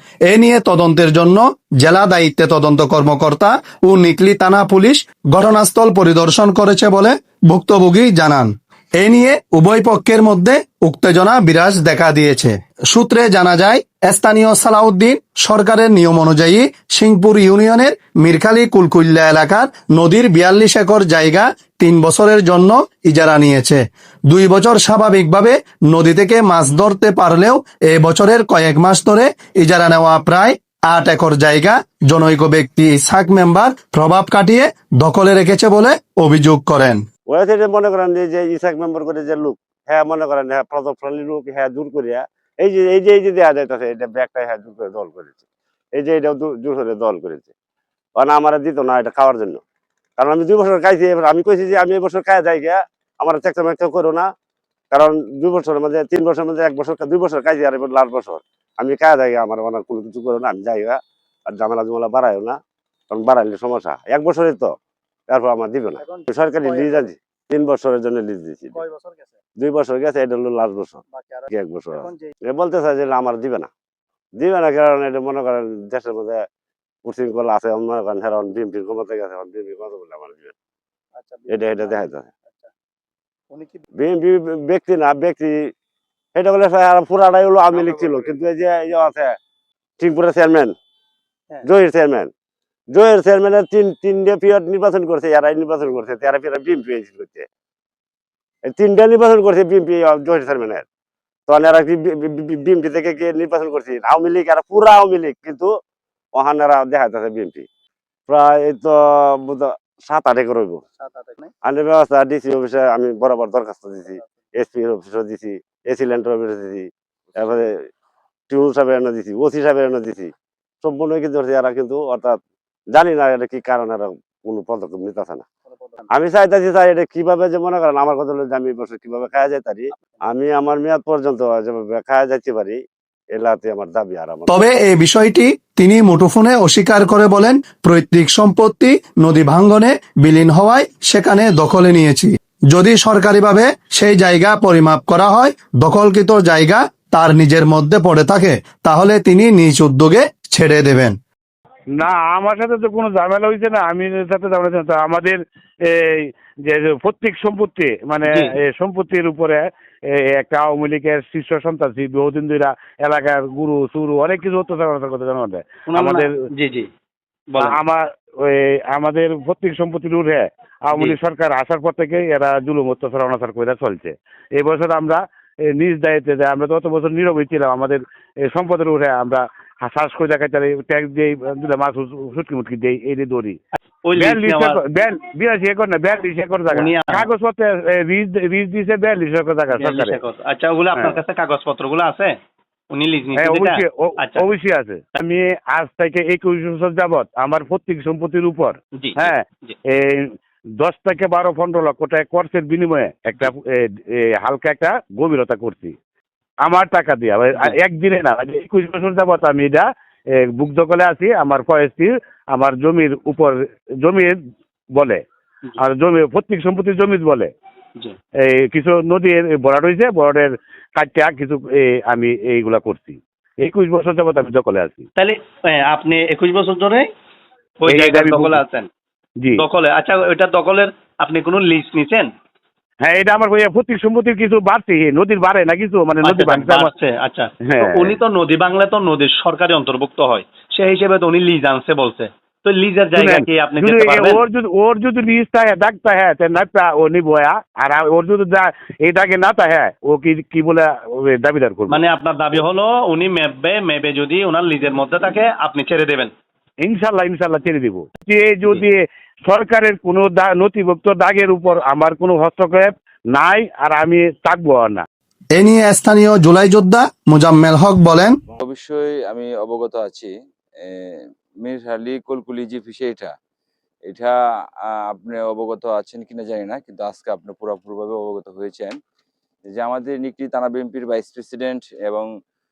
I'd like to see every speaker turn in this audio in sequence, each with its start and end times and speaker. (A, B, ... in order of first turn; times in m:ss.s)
0:00.3-0:37.0 A
0:37.3-0:45.4 B
0:46.0-0:47.5 B
0:48.2-0:49.6 B
0:50.2-0:54.3 B
0:54.9-1:02.6 B
1:03.1-1:04.7 B
1:05.3-1:08.8 B
1:09.6-1:13.7 B
1:14.4-1:16.4 B
1:17.0-1:20.5 B
1:21.5-1:22.3 B
1:24.0-1:25.5 B
1:26.3-1:29.3 B
1:30.0-1:30.7 B
1:31.6-1:32.3 B
1:32.9-1:37.5 B
1:38.7-1:40.8 B
1:41.5-1:45.7 B
1:46.3-1:47.6 B
1:48.3-1:50.8 B
1:51.6-1:57.8 B
1:58.5-2:00.3 B
2:00.8-2:02.4 B
2:02.9-2:05.4 B
2:06.1-2:12.8 B
2:13.3-2:14.7 B
2:14.5-2:31.2 A
2:32.0-2:46.3 C
2:38.2-2:38.5 D
2:45.9-2:46.9 D
2:47.5-2:47.8 D
2:47.6-2:55.2 C
2:55.7-3:03.6 C
3:04.0-3:04.8 D
3:04.2-3:10.2 C
3:06.7-3:07.3 D
3:09.7-3:12.4 D
3:12.9-3:14.4 D
3:13.4-3:25.9 C
3:18.9-3:19.8 D
3:26.6-3:29.8 C
3:30.4-3:34.4 C
3:34.9-3:35.2 C
3:35.8-3:37.5 C
3:38.5-3:45.1 C
3:45.2-3:47.1 D
3:47.8-3:48.9 D
3:47.9-3:48.6 C
3:49.6-3:52.3 D
3:53.0-3:56.9 C
3:56.2-4:04.4 D
3:57.6-3:58.2 C
4:03.1-4:12.0 C
4:11.9-4:16.3 D
4:16.8-4:25.0 C
4:25.6-4:28.4 A
4:28.6-4:30.3 E
4:30.8-4:33.3 E
4:34.1-4:39.0 E
4:39.7-4:42.3 E